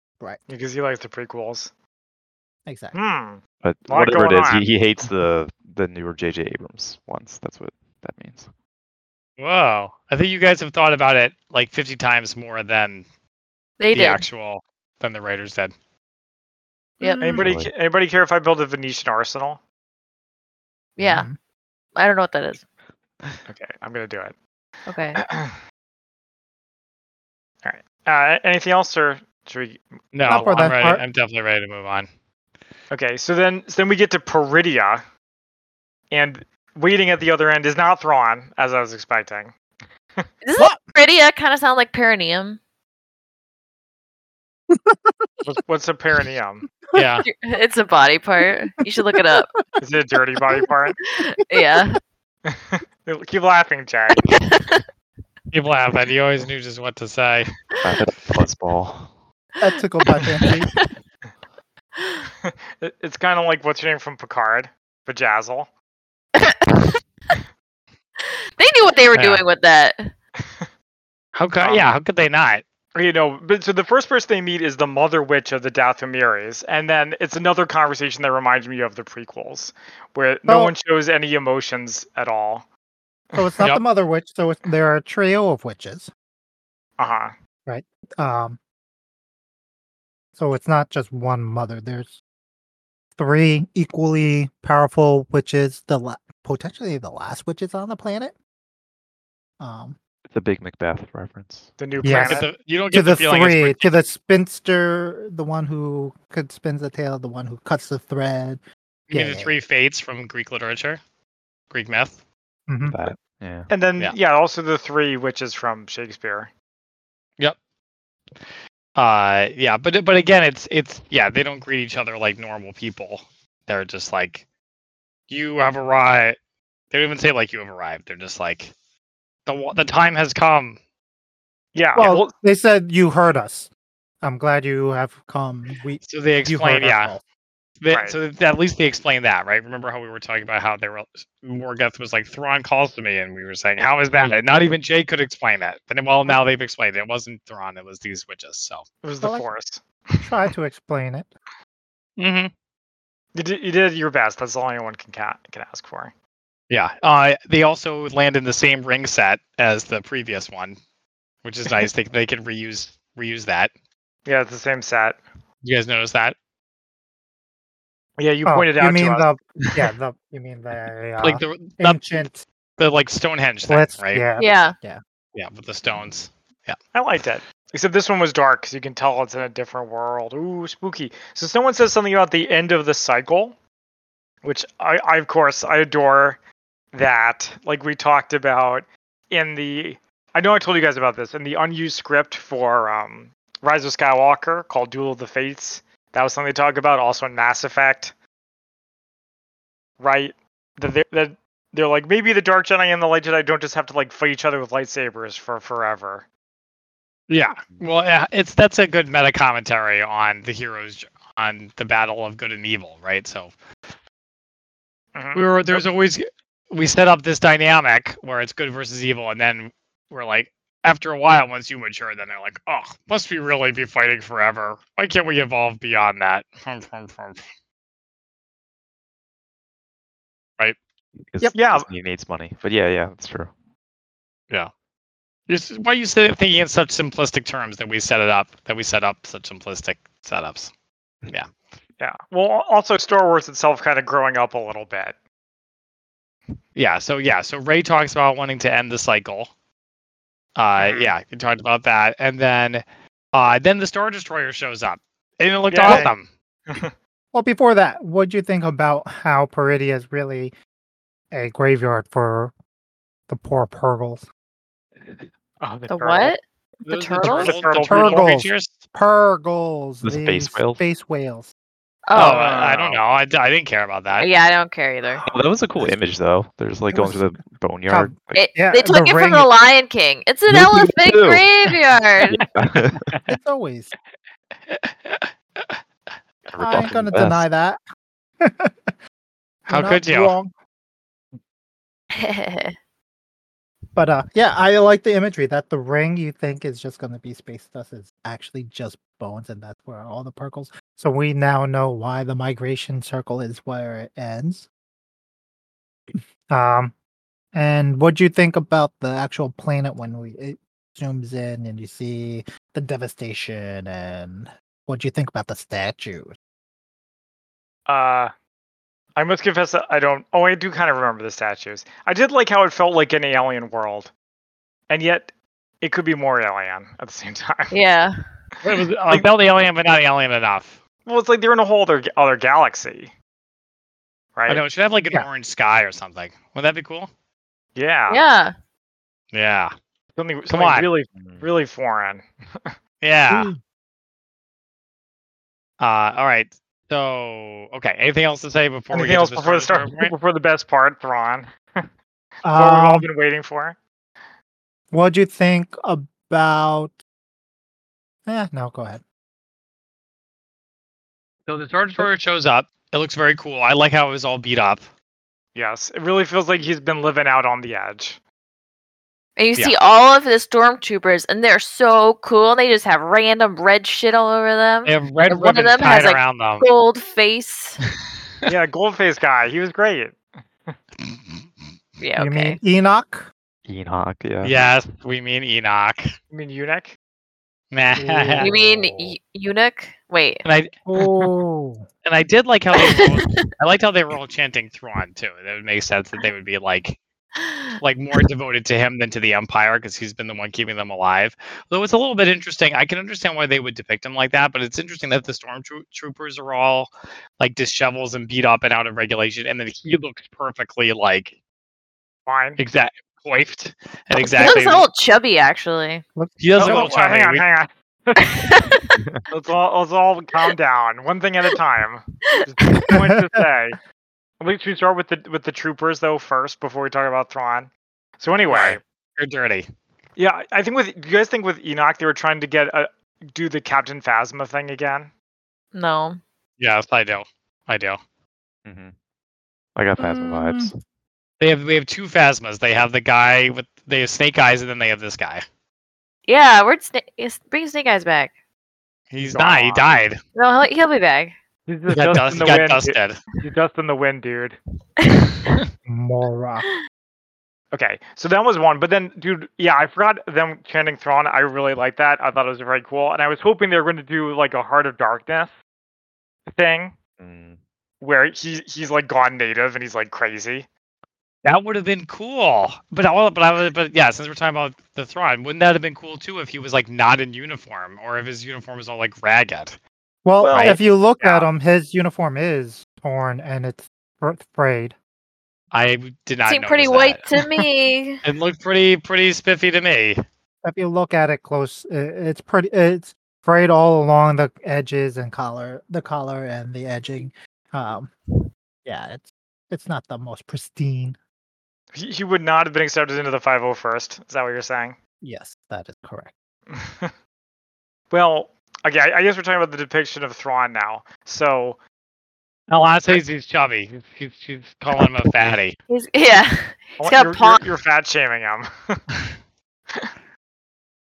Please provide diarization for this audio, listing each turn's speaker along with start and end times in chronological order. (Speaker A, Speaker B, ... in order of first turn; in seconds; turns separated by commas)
Speaker A: 0.5-1.7, Speaker B: 2.6-3.0, Speaker A: 2.9-4.6, Speaker C: 3.6-8.5, Speaker D: 9.4-13.0, Speaker E: 13.8-14.2, Speaker D: 13.9-15.7, Speaker E: 17.0-17.4, Speaker B: 17.0-17.4, Speaker A: 17.2-19.6, Speaker C: 17.4-17.7, Speaker E: 21.0-21.3, Speaker B: 21.0-21.4, Speaker E: 21.9-22.6, Speaker A: 23.5-24.4, Speaker E: 24.9-25.2, Speaker A: 25.1-25.6, Speaker A: 27.6-30.7, Speaker D: 30.1-32.1, Speaker B: 30.3-31.0, Speaker A: 32.9-35.0, Speaker A: 36.1-39.6, Speaker E: 40.4-42.6, Speaker B: 40.6-40.8, Speaker B: 44.7-45.6, Speaker A: 45.4-46.6, Speaker D: 46.9-47.3, Speaker E: 47.2-49.5, Speaker B: 49.1-49.4, Speaker A: 49.8-51.0, Speaker E: 51.0-52.0, Speaker A: 52.5-54.3, Speaker E: 54.3-54.8, Speaker D: 55.5-57.5, Speaker C: 57.8-59.1, Speaker B: 59.6-60.7, Speaker E: 60.1-60.9, Speaker E: 62.0-62.2, Speaker A: 62.4-65.7, Speaker E: 66.3-67.3, Speaker E: 68.6-70.1, Speaker D: 69.1-69.5, Speaker D: 71.3-72.6, Speaker A: 71.6-71.8, Speaker A: 72.9-82.7, Speaker B: 80.5-80.7, Speaker B: 83.3-86.1, Speaker A: 87.0-87.3, Speaker B: 87.7-88.6, Speaker B: 90.3-92.2, Speaker B: 93.2-98.3, Speaker B: 99.6-100.0, Speaker C: 100.3-101.7, Speaker A: 101.8-102.5, Speaker B: 102.0-108.6, Speaker D: 102.1-104.0, Speaker D: 109.1-111.0, Speaker B: 109.1-109.5, Speaker D: 111.7-112.2, Speaker B: 112.7-113.0, Speaker C: 112.8-113.7, Speaker A: 113.7-116.5, Speaker D: 119.0-124.4, Speaker D: 125.3-126.4, Speaker D: 126.9-128.7, Speaker D: 129.4-130.8, Speaker A: 131.8-132.3, Speaker B: 131.9-133.7, Speaker B: 134.2-137.2, Speaker D: 136.0-137.1, Speaker D: 137.8-148.8, Speaker A: 137.9-138.2, Speaker A: 149.0-150.3, Speaker B: 149.2-149.4, Speaker B: 150.2-151.3, Speaker D: 152.2-152.5, Speaker A: 153.3-156.1, Speaker D: 156.7-160.8, Speaker D: 161.4-163.7, Speaker A: 164.2-165.2, Speaker D: 165.6-166.3, Speaker A: 168.2-169.3, Speaker B: 168.4-172.4, Speaker D: 171.2-172.2, Speaker D: 172.8-174.2, Speaker B: 173.7-175.0, Speaker E: 174.4-174.7, Speaker D: 175.3-176.8, Speaker A: 176.9-183.6, Speaker A: 184.4-186.4, Speaker A: 186.9-198.1, Speaker A: 200.0-206.2, Speaker D: 207.3-213.5, Speaker A: 215.2-215.8, Speaker D: 215.3-227.4, Speaker C: 231.2-233.5, Speaker A: 231.5-231.9, Speaker D: 235.5-240.7, Speaker A: 242.0-245.2, Speaker D: 246.7-249.5, Speaker D: 250.6-256.3, Speaker A: 250.8-251.1, Speaker A: 255.7-256.1, Speaker B: 255.9-256.1, Speaker A: 256.7-256.9, Speaker B: 257.3-260.5, Speaker B: 261.3-262.5, Speaker B: 263.3-264.2, Speaker A: 265.6-266.3, Speaker E: 265.9-267.6, Speaker D: 266.9-268.7, Speaker A: 267.2-268.2, Speaker B: 267.7-271.5, Speaker C: 270.0-270.8, Speaker E: 272.1-272.5, Speaker D: 272.1-274.3, Speaker A: 272.1-273.0, Speaker E: 274.2-275.2, Speaker C: 275.2-278.5, Speaker B: 276.9-277.3, Speaker B: 277.9-279.5, Speaker E: 278.3-282.4, Speaker C: 280.5-281.5, Speaker C: 282.4-283.1, Speaker D: 283.1-283.4, Speaker B: 283.3-283.9, Speaker D: 284.7-285.8, Speaker C: 286.5-287.4, Speaker B: 286.6-287.8, Speaker B: 288.4-288.9, Speaker B: 289.7-290.5, Speaker D: 289.7-290.4, Speaker E: 292.1-292.7, Speaker B: 293.9-304.7, Speaker B: 306.1-306.9, Speaker B: 307.5-316.3, Speaker A: 317.9-318.3, Speaker A: 319.2-324.1, Speaker A: 324.9-327.7, Speaker E: 327.7-328.2, Speaker D: 328.6-330.8, Speaker A: 331.1-333.1, Speaker A: 334.3-334.6, Speaker D: 334.5-337.1, Speaker A: 337.7-338.2, Speaker E: 338.1-338.5, Speaker D: 339.3-339.7, Speaker A: 340.1-342.7, Speaker D: 340.5-340.9, Speaker C: 341.1-341.4, Speaker D: 343.0-343.5, Speaker B: 343.3-343.6, Speaker D: 345.8-350.1, Speaker A: 348.9-351.9, Speaker B: 352.4-353.1, Speaker A: 352.5-353.8, Speaker B: 354.9-356.9, Speaker B: 358.2-359.0, Speaker D: 361.4-364.9, Speaker A: 365.6-368.2, Speaker E: 369.4-377.8, Speaker D: 374.8-376.7, Speaker A: 378.5-380.8, Speaker E: 382.0-382.6, Speaker B: 382.2-383.3, Speaker C: 383.7-384.6, Speaker D: 384.4-386.1, Speaker A: 386.3-387.0, Speaker D: 387.7-388.5, Speaker B: 387.9-388.6, Speaker E: 388.4-390.4, Speaker C: 388.6-389.1, Speaker D: 390.4-391.1, Speaker B: 390.9-391.9, Speaker D: 392.1-397.0, Speaker E: 392.7-393.5, Speaker E: 397.4-397.8, Speaker D: 397.8-411.3, Speaker A: 412.2-412.6, Speaker D: 412.6-414.9, Speaker E: 414.2-416.0, Speaker B: 416.2-416.8, Speaker D: 416.4-417.4, Speaker A: 416.6-418.7, Speaker E: 418.2-419.0, Speaker A: 419.3-423.8, Speaker E: 422.3-422.9, Speaker B: 422.9-423.4, Speaker A: 424.4-428.8, Speaker D: 428.5-429.7, Speaker A: 430.2-435.1, Speaker E: 435.7-436.2, Speaker D: 436.6-438.0, Speaker C: 438.7-438.9, Speaker C: 439.7-440.7, Speaker B: 440.0-440.7, Speaker D: 441.4-445.4, Speaker E: 446.3-448.3, Speaker D: 449.1-450.2, Speaker A: 449.3-449.9, Speaker E: 450.4-451.3, Speaker A: 451.7-454.6, Speaker D: 451.9-453.2, Speaker E: 455.1-455.5, Speaker B: 455.9-456.7, Speaker A: 457.7-465.5, Speaker A: 466.5-466.9, Speaker C: 467.2-467.6, Speaker A: 468.0-470.7, Speaker D: 471.4-479.8, Speaker B: 480.2-484.9, Speaker A: 480.4-480.8, Speaker D: 480.6-481.4, Speaker D: 485.7-487.2, Speaker E: 486.5-488.2, Speaker A: 487.4-487.6, Speaker D: 488.2-490.2, Speaker B: 490.6-498.1, Speaker B: 498.8-501.2, Speaker A: 501.9-504.9, Speaker B: 505.2-506.3, Speaker A: 506.7-507.1, Speaker A: 508.1-511.8, Speaker D: 512.7-515.8, Speaker E: 515.9-517.6, Speaker A: 517.0-519.0